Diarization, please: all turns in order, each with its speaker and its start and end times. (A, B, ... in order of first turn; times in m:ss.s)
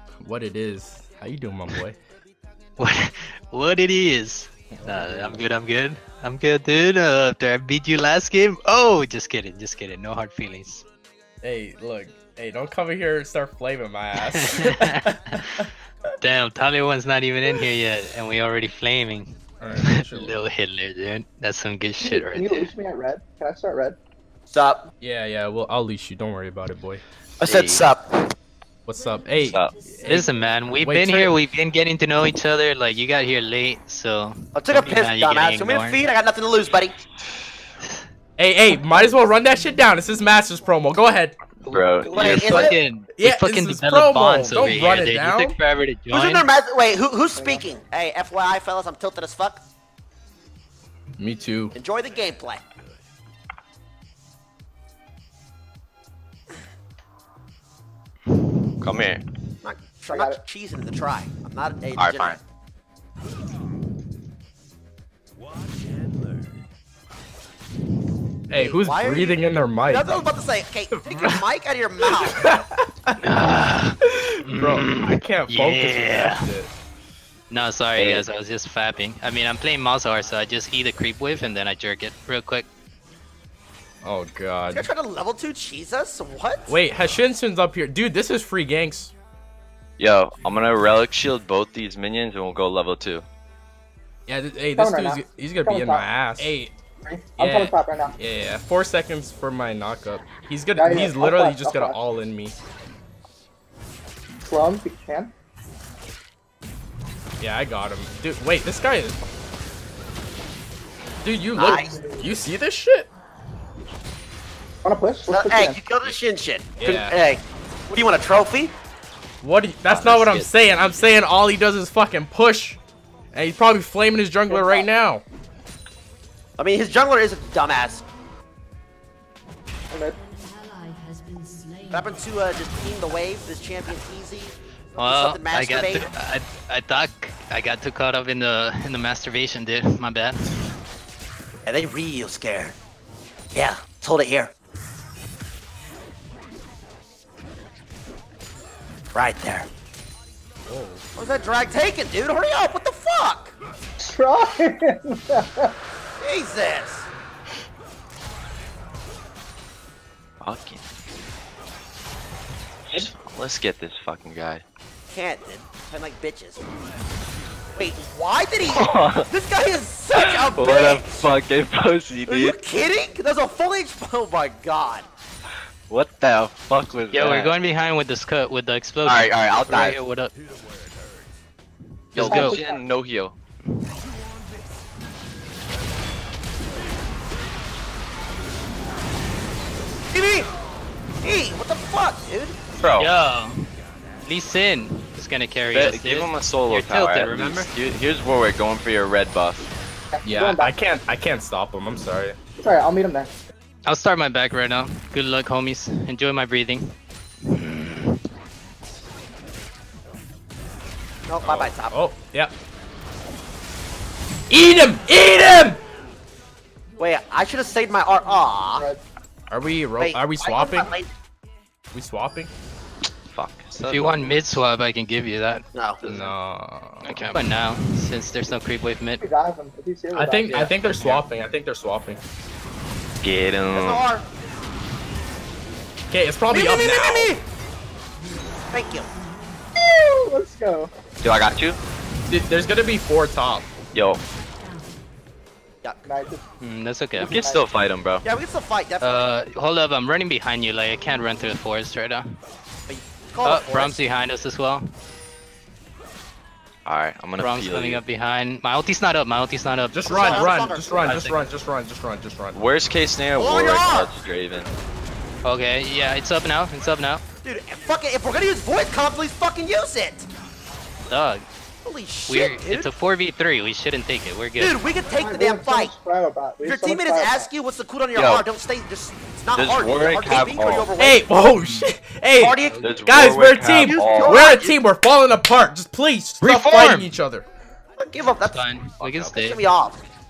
0:00.2-0:02.0 A
0:02.8-0:10.8 B
0:04.7-0:05.4 A
0:11.4-0:14.9 A
0:14.4-0:15.4 B
0:16.2-0:22.7 B
0:19.6-0:20.4 A
0:22.0-0:24.0 C
0:24.5-0:24.9 D
0:25.0-0:27.0 A
0:27.4-0:28.3 D
0:27.5-0:27.8 B
0:28.9-0:30.3 A
0:29.5-0:29.7 E
0:30.1-0:36.0 B
0:30.8-0:31.3 A
0:34.6-0:37.0 D
0:38.4-0:41.4 A
0:41.6-0:46.5 B
0:41.7-0:42.6 E
0:42.0-0:42.8 D
0:42.4-0:45.6 A
0:46.1-0:49.6 D
0:47.3-0:47.8 C
0:51.2-0:51.8 A
0:51.8-0:52.6 D
0:58.8-0:59.2 E
0:59.6-1:02.4 D
1:00.1-1:00.4 C
1:02.0-1:02.4 E
1:08.5-1:10.2 A
1:08.6-1:12.5 D
1:11.1-1:11.4 A
1:12.3-1:12.8 A
1:13.2-1:16.5 B
1:14.0-1:16.7 A
1:17.5-1:22.7 B
1:18.0-1:18.2 E
1:24.0-1:24.9 A
1:24.7-1:26.7 D
1:26.7-1:29.1 A
1:30.0-1:33.2 E
1:34.3-1:36.8 A
1:34.7-1:36.5 C
1:37.0-1:38.2 C
1:37.4-1:42.6 A
1:40.8-1:42.1 C
1:44.4-1:45.3 C
1:47.4-1:49.2 A
1:51.2-1:53.1 A
1:51.6-1:51.9 D
1:51.8-1:52.2 C
1:54.8-1:55.9 C
1:55.3-1:58.7 D
1:56.8-1:57.1 A
1:59.4-2:02.8 A
1:59.9-2:00.5 E
2:03.3-2:05.2 A
2:04.5-2:04.9 C
2:06.6-2:08.0 D
2:09.9-2:10.2 C
2:11.9-2:16.1 D
2:15.0-2:20.5 B
2:21.7-2:22.8 D
2:23.5-2:24.5 D
2:29.1-2:29.7 D
2:30.7-2:31.0 A
2:31.2-2:33.6 D
2:34.0-2:35.7 C
2:36.2-2:37.1 D
2:40.4-2:40.8 E
2:42.9-2:44.6 E
2:45.1-2:46.6 D
2:47.8-2:51.1 D
2:48.7-2:49.3 E
2:50.1-2:52.6 E
2:52.3-2:55.1 D
2:55.9-2:57.6 E
2:57.1-3:00.3 B
2:59.0-3:00.0 E
3:02.1-3:03.4 E
3:02.2-3:02.6 B
3:02.2-3:02.8 C
3:10.1-3:10.5 D
3:11.2-3:12.6 D
3:12.8-3:13.1 E
3:13.0-3:13.5 B
3:14.2-3:17.7 B
3:15.7-3:19.7 E
3:20.1-3:20.8 C
3:20.2-3:22.4 A
3:22.6-3:23.3 C
3:23.8-3:27.0 B
3:27.5-3:28.2 B
3:31.3-3:32.0 D
3:31.4-3:32.5 A
3:34.5-3:35.8 A
3:37.0-3:38.9 D
3:38.8-3:39.0 C
3:39.5-3:40.9 A
3:40.0-3:41.1 D
3:41.9-3:42.5 A
3:43.3-3:44.6 E
3:43.8-3:46.4 B
3:45.7-3:46.0 D
3:46.0-3:47.4 A
3:47.0-3:49.2 B
3:49.2-3:50.6 C
3:50.1-3:52.2 A
3:50.5-3:51.2 B
3:53.2-3:54.0 E
3:53.7-3:54.3 D
3:56.1-3:57.3 A
3:56.5-3:57.4 D
3:58.7-3:59.1 D
3:59.8-4:00.9 C
4:01.2-4:01.8 E
4:02.3-4:03.7 A
4:03.9-4:04.2 E
4:06.0-4:06.4 C
4:06.6-4:07.3 B
4:07.2-4:07.7 C
4:07.2-4:08.2 E
4:08.2-4:09.3 D
4:09.0-4:12.4 B
4:12.9-4:14.0 D
4:13.4-4:14.9 B
4:16.9-4:18.0 E
4:17.4-4:21.4 B
4:19.9-4:22.6 A
4:20.1-4:21.2 D
4:22.6-4:24.7 E
4:23.4-4:24.1 D
4:25.4-4:27.2 B
4:27.4-4:30.3 D
4:31.1-4:31.5 B
4:31.8-4:32.9 D
4:32.3-4:34.8 B
4:34.6-4:35.9 D
4:35.2-4:37.5 C
4:36.6-4:41.2 D
4:38.2-4:38.4 E
4:39.5-4:40.9 E
4:41.0-4:47.5 A
4:41.6-4:41.9 B
4:42.4-4:43.0 D
4:42.6-4:42.9 B
4:42.8-4:44.4 E
4:43.7-4:44.8 D
4:46.4-4:47.1 B
4:48.0-4:48.6 D
4:48.4-4:49.6 B
4:49.0-4:49.3 E
4:49.2-4:50.0 D